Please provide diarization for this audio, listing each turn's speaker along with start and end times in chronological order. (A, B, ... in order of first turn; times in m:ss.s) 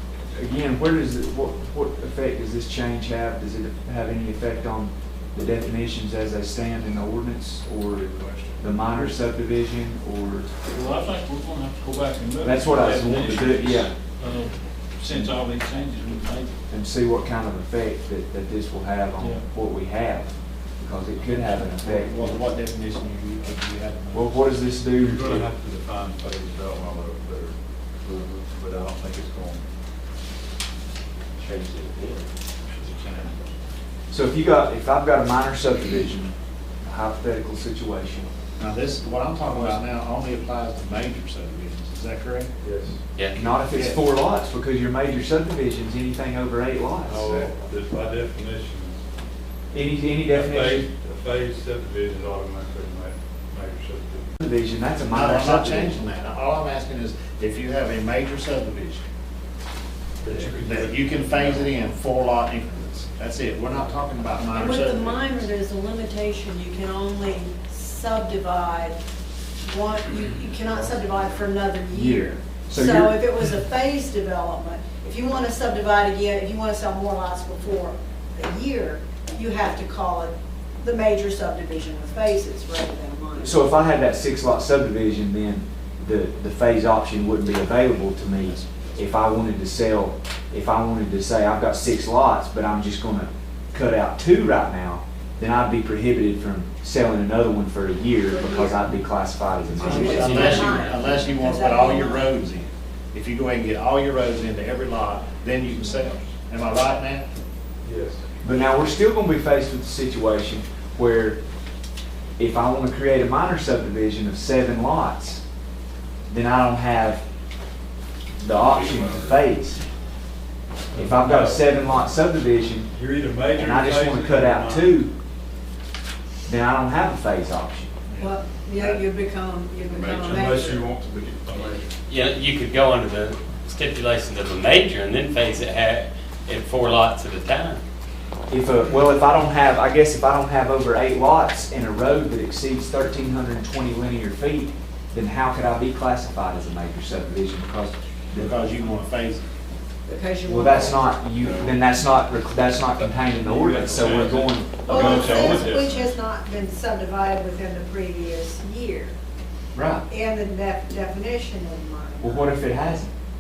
0:00.3-0:10.5 A
0:08.2-0:08.5 B
0:10.7-0:16.5 C
0:12.4-0:13.9 A
0:16.7-0:22.4 A
0:19.2-0:19.4 C
0:21.8-0:24.4 D
0:24.1-0:25.5 A
0:25.0-0:27.6 B
0:28.0-0:28.4 E
0:28.3-0:29.7 B
0:31.4-0:32.3 E
0:32.7-0:33.5 B
0:34.1-0:38.3 A
0:38.6-0:42.5 D
0:42.6-0:43.0 B
0:43.2-0:43.5 E
0:43.3-0:47.4 A
0:43.7-0:44.0 D
0:47.0-0:49.0 B
0:49.7-0:50.9 A
0:50.3-0:54.3 B
0:54.4-0:56.0 A
0:55.1-0:59.0 D
1:00.2-1:01.9 B
1:00.5-1:05.2 D
1:04.5-1:09.0 F
1:09.6-1:23.6 F
1:11.9-1:13.6 A
1:23.4-1:40.7 A
1:28.4-1:29.1 D
1:38.3-1:38.9 F
1:39.7-1:41.2 E
1:39.8-1:47.2 D
1:39.8-1:42.4 F
1:47.8-1:48.2 B
1:48.4-1:51.4 A
1:52.4-1:55.4 A
1:56.3-1:57.2 A
1:58.4-1:59.8 A
2:00.9-2:01.8 B
2:00.9-2:02.9 A
2:02.9-2:05.0 B
2:03.5-2:05.1 A
2:06.5-2:07.9 A
2:08.1-2:09.0 D
2:08.2-2:10.9 F
2:09.9-2:11.9 B
2:11.6-2:17.8 E
2:18.5-2:28.6 A
2:28.4-2:29.4 D
2:30.1-2:31.2 F
2:30.4-2:35.6 A
2:33.4-2:36.1 B
2:34.8-2:39.1 F
2:39.8-2:40.0 A
2:40.1-2:42.6 F
2:42.2-2:43.1 A